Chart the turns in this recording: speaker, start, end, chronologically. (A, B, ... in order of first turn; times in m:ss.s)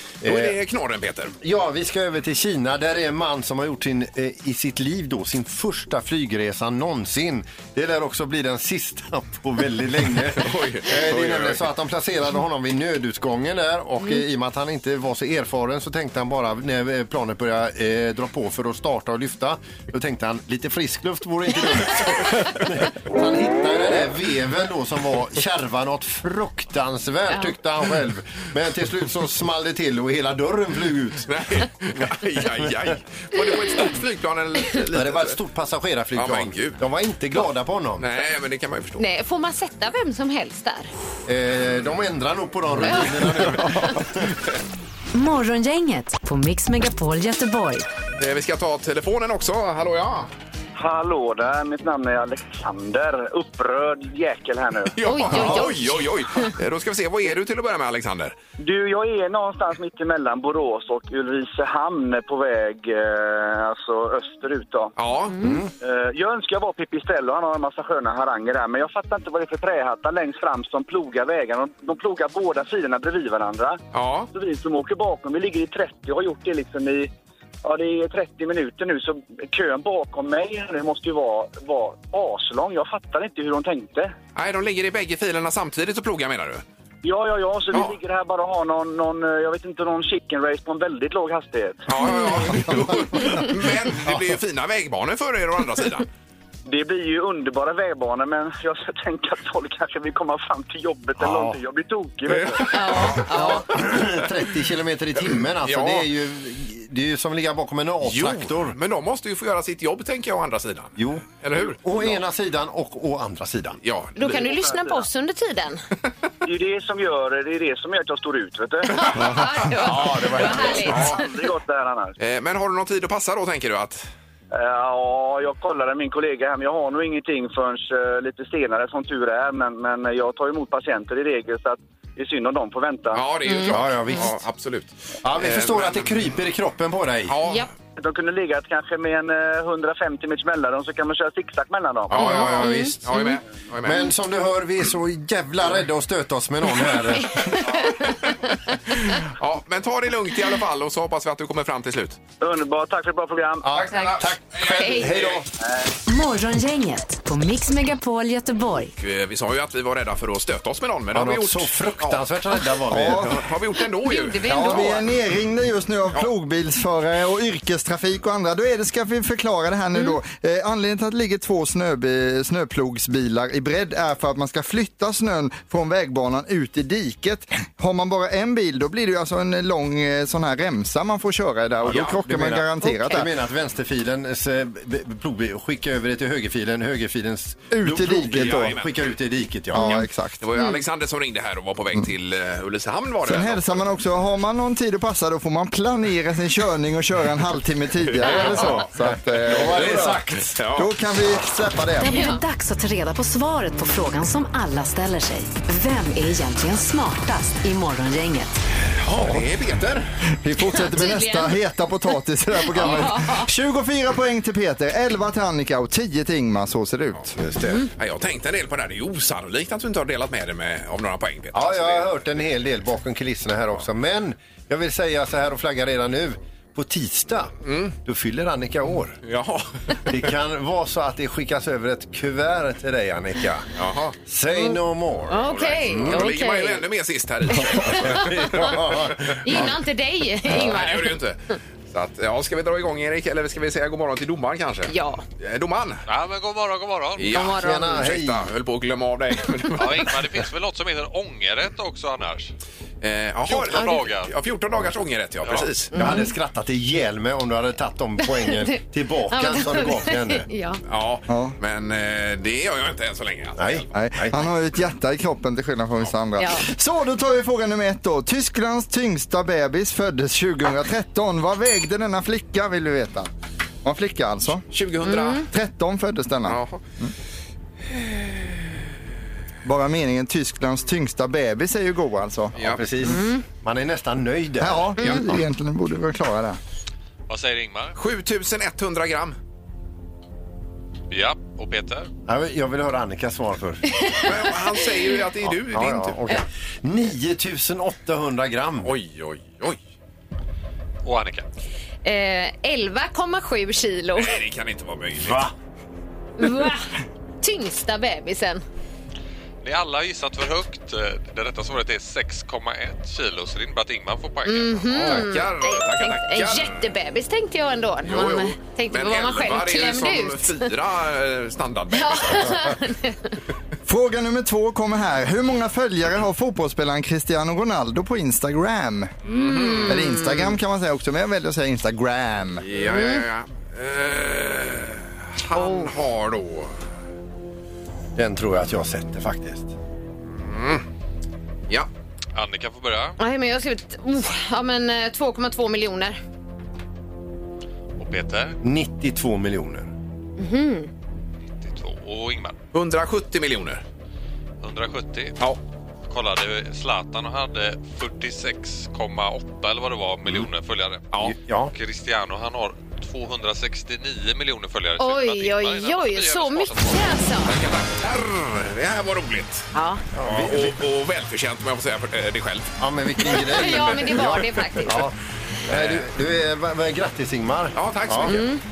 0:00.2-0:00.6 A
0:00.2-0:01.4 B
0:01.4-0:31.3 A
0:10.4-0:11.6 B
0:31.3-0:35.4 B
0:32.0-0:32.7 A
0:34.9-0:38.1 A
0:36.1-0:36.8 B
0:38.0-0:39.0 B
0:39.0-0:40.9 C
0:41.2-0:44.3 A
0:45.1-0:47.8 D
0:48.2-0:50.3 B
0:50.8-0:55.0 E
0:55.0-0:58.3 B
0:55.0-0:56.5 C
0:58.6-1:04.9 E
1:05.0-1:05.5 B
1:05.3-1:05.6 C
1:05.4-1:05.7 A
1:05.8-1:13.8 E
1:13.9-1:14.3 B
1:14.3-1:17.1 E
1:17.6-1:24.1 E
1:24.4-1:26.6 B
1:27.0-1:31.8 E
1:27.7-1:28.0 B
1:31.9-1:36.1 B
1:32.0-1:32.5 C
1:33.9-1:34.2 A
1:36.7-1:42.9 E
1:41.2-1:41.6 A
1:42.3-1:44.2 B
1:42.7-1:43.8 C
1:43.2-1:48.8 A
1:45.6-1:46.1 B
1:48.0-1:52.2 B
1:51.0-1:53.8 A
1:53.8-1:54.6 B
1:54.2-1:55.8 C
1:54.6-1:55.0 E
1:56.4-1:59.1 E
1:58.9-2:01.2 C
1:59.0-2:01.2 B
2:00.4-2:02.2 E
2:02.2-2:04.1 B
2:04.5-2:13.2 E
2:13.1-2:16.1 B
2:13.4-2:14.2 C
2:13.7-2:14.4 A
2:15.2-2:17.3 A
2:17.3-2:17.7 B
2:17.4-2:17.7 C
2:18.0-2:22.4 E
2:22.1-2:24.1 B
2:22.2-2:23.4 C
2:22.3-2:23.0 A
2:23.8-2:27.6 A
2:27.2-2:29.1 C
2:27.7-2:28.1 B
2:29.1-2:32.2 B
2:32.4-2:33.7 E
2:33.6-2:35.5 A
2:33.8-2:35.4 B
2:33.9-2:35.2 C
2:35.6-2:35.9 E
2:36.0-2:38.9 D
2:39.0-2:42.2 B
2:41.1-2:43.5 A
2:42.9-2:43.4 F
2:43.0-2:44.9 B
2:44.0-2:45.0 C
2:44.4-3:03.3 F
3:01.8-3:09.9 A
3:01.9-3:02.2 B
3:02.8-3:03.2 C
3:07.7-3:08.8 F
3:08.3-3:09.1 B
3:09.7-3:10.4 F
3:09.7-3:10.0 C
3:09.8-3:13.8 B
3:13.2-3:20.2 F
3:18.2-3:18.7 C
3:18.2-3:18.9 B
3:19.4-3:20.6 A
3:19.5-3:20.9 B
3:20.7-3:22.2 F
3:22.0-3:28.6 D
3:22.0-3:22.4 C
3:29.0-3:30.1 B
3:30.4-3:37.3 F
3:30.7-3:31.6 C
3:32.7-3:33.5 C
3:37.4-3:37.9 A
3:38.0-3:42.2 B
3:41.5-3:49.2 A
3:47.6-3:47.9 B
3:49.2-3:50.0 B
3:50.1-3:53.7 A
3:53.7-3:54.2 B
3:54.2-3:56.3 A
3:55.3-3:56.8 C
3:55.4-3:59.7 B
3:57.5-3:59.7 A
3:57.5-3:58.7 C
3:59.4-4:01.2 C
4:00.5-4:06.0 B
4:04.9-4:05.2 C
4:06.1-4:07.4 G
4:07.2-4:10.2 B
4:07.3-4:08.0 C
4:07.5-4:08.5 A
4:09.8-4:12.5 G
4:13.0-4:15.9 B
4:13.4-4:14.3 G
4:15.4-4:15.7 G
4:15.9-4:16.3 C
4:15.9-4:20.5 A
4:18.2-4:20.8 C
4:20.9-4:23.9 B
4:21.3-4:21.5 F
4:23.6-4:24.4 A
4:23.9-4:33.3 F
4:26.4-4:26.6 C
4:33.8-4:34.6 F
4:34.7-4:35.5 B
4:35.0-4:35.4 C
4:35.5-4:37.1 F
4:36.4-4:36.8 B
4:37.9-4:38.5 B
4:39.6-4:42.5 F
4:42.5-4:45.4 A
4:42.6-4:42.8 B
4:43.0-4:43.4 C
4:44.6-4:46.6 F
4:47.3-4:48.0 G
4:48.0-4:49.4 B
4:51.1-4:52.1 G
4:52.2-4:54.2 A
4:54.2-4:56.2 B
4:55.4-4:58.9 A
4:58.8-4:59.8 B
5:01.0-5:01.4 G
5:02.0-5:04.4 C
5:04.2-5:05.5 B
5:05.2-5:05.5 A
5:06.4-5:08.6 C
5:09.6-5:15.3 G
5:14.4-5:20.7 C
5:15.0-5:16.8 B
5:18.0-5:22.8 B
5:21.9-5:23.3 C
5:23.8-5:29.1 F
5:29.2-5:30.0 B
5:29.2-5:30.5 C
5:29.8-5:32.6 F
5:32.6-5:36.7 B
5:32.8-5:33.2 C
5:35.5-5:35.9 C
5:38.2-5:39.7 A
5:40.3-5:40.8 B
5:42.3-5:43.2 G
5:43.2-5:46.2 C
5:48.0-5:48.6 G
5:48.6-5:49.9 A
5:50.4-5:50.9 C
5:51.6-5:52.6 G
5:52.7-5:53.8 B
5:54.6-5:55.4 G
5:56.1-6:07.7 G
6:01.2-6:01.7 A
6:05.0-6:07.6 C
6:07.5-6:09.7 B
6:09.7-6:10.0 C
6:10.2-6:10.8 A
6:10.2-6:12.8 B
6:12.8-6:15.2 A
6:13.2-6:15.1 C
6:15.7-6:18.4 A
6:15.7-6:16.0 B
6:17.8-6:18.5 B
6:18.2-6:18.6 C